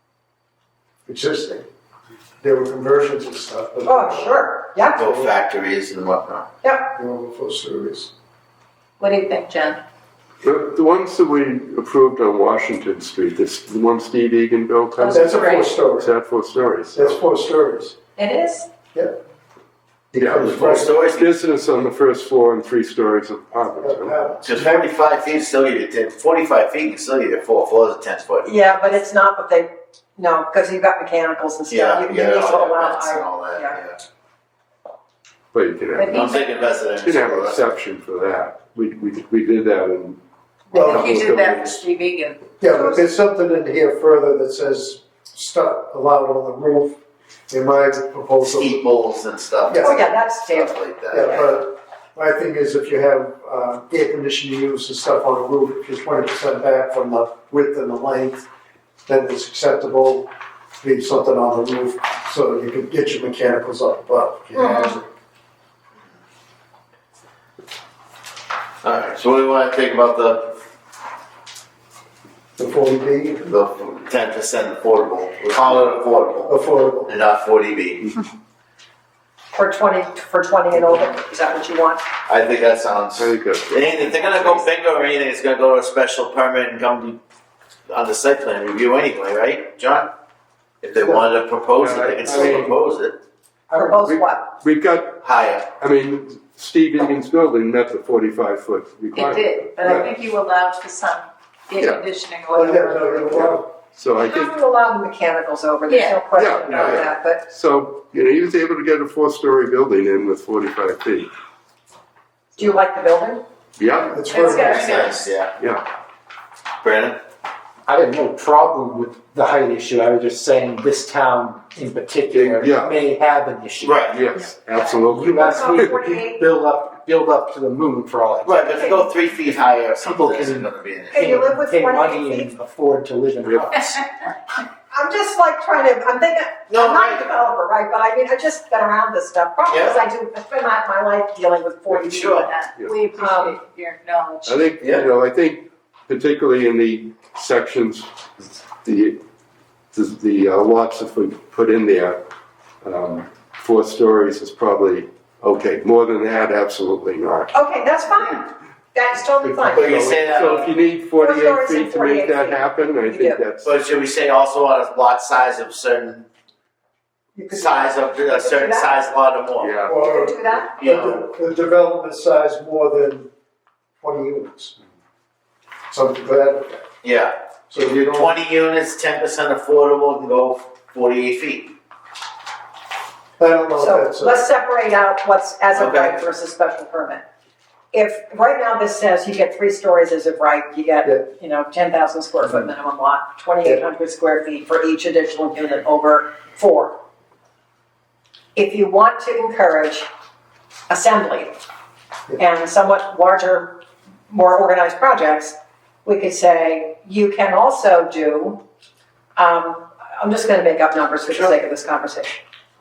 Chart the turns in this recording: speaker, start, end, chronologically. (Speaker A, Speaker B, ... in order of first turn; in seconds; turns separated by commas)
Speaker A: 1.1-1.7, Speaker A: 2.4-4.3, Speaker B: 3.9-5.1, Speaker C: 5.0-6.5, Speaker B: 6.6-6.9, Speaker A: 7.0-8.1, Speaker D: 9.0-9.8, Speaker E: 10.4-17.2, Speaker D: 15.0-15.8, Speaker A: 15.1-16.1, Speaker A: 16.9-17.9, Speaker D: 18.2-18.7, Speaker A: 20.1-20.9, Speaker E: 20.2-24.2, Speaker C: 20.4-21.4, Speaker A: 23.8-24.9, Speaker C: 24.4-28.5, Speaker B: 28.4-33.8, Speaker C: 31.7-34.0, Speaker E: 35.5-36.3, Speaker D: 36.0-36.5, Speaker C: 36.1-37.7, Speaker E: 37.0-41.8, Speaker D: 40.7-42.4, Speaker A: 40.7-41.2, Speaker A: 42.6-48.8, Speaker B: 42.7-43.1, Speaker C: 48.4-51.5, Speaker A: 49.7-50.0, Speaker B: 49.8-50.8, Speaker A: 51.1-58.5, Speaker A: 59.1-60.3, Speaker A: 60.8-65.1, Speaker B: 64.6-64.9, Speaker C: 68.8-70.6, Speaker A: 72.6-73.5, Speaker C: 73.5-76.5, Speaker A: 76.5-77.1, Speaker C: 77.1-78.2, Speaker B: 79.5-82.0, Speaker C: 82.3-87.2, Speaker E: 83.2-83.9, Speaker B: 83.9-84.6, Speaker C: 87.9-90.1, Speaker C: 90.8-93.2, Speaker E: 91.8-92.7, Speaker F: 93.7-94.0, Speaker B: 93.7-94.6, Speaker E: 94.0-95.2, Speaker C: 95.2-95.7, Speaker E: 95.8-100.1, Speaker D: 99.1-103.4, Speaker E: 101.8-102.0, Speaker A: 102.5-103.7, Speaker E: 103.3-104.6, Speaker B: 104.2-107.5, Speaker D: 105.9-106.2, Speaker E: 106.3-111.3, Speaker C: 106.7-107.0, Speaker B: 112.6-113.4, Speaker E: 113.8-114.2, Speaker A: 114.1-115.1, Speaker D: 114.2-115.2, Speaker C: 114.6-115.5, Speaker E: 115.6-115.8, Speaker C: 116.8-117.2, Speaker F: 117.9-124.0, Speaker E: 122.3-123.0, Speaker C: 123.8-124.2, Speaker E: 124.0-126.0, Speaker F: 124.6-128.9, Speaker B: 125.2-126.5, Speaker C: 128.4-131.3, Speaker B: 128.7-129.0, Speaker F: 130.0-134.0, Speaker B: 131.1-132.5, Speaker B: 134.9-142.5, Speaker C: 136.7-137.3, Speaker C: 139.7-140.0, Speaker C: 142.1-142.5, Speaker D: 142.4-144.7, Speaker B: 143.2-143.6, Speaker E: 144.5-149.2, Speaker E: 149.9-152.2, Speaker E: 152.8-157.5, Speaker B: 157.5-160.1, Speaker E: 159.5-163.7, Speaker C: 159.7-160.7, Speaker B: 161.2-163.4, Speaker C: 163.6-166.2, Speaker B: 167.4-168.9, Speaker C: 167.5-169.7, Speaker E: 169.6-170.0, Speaker B: 169.9-170.8, Speaker A: 169.9-173.3, Speaker C: 170.7-171.2, Speaker A: 174.0-174.8, Speaker A: 175.9-176.8, Speaker C: 177.0-181.7, Speaker A: 177.7-178.3, Speaker A: 183.4-184.4, Speaker B: 183.8-187.2, Speaker C: 185.7-186.2, Speaker B: 187.9-197.0, Speaker B: 198.6-200.1, Speaker B: 200.9-201.6, Speaker B: 202.4-208.6, Speaker B: 209.4-212.4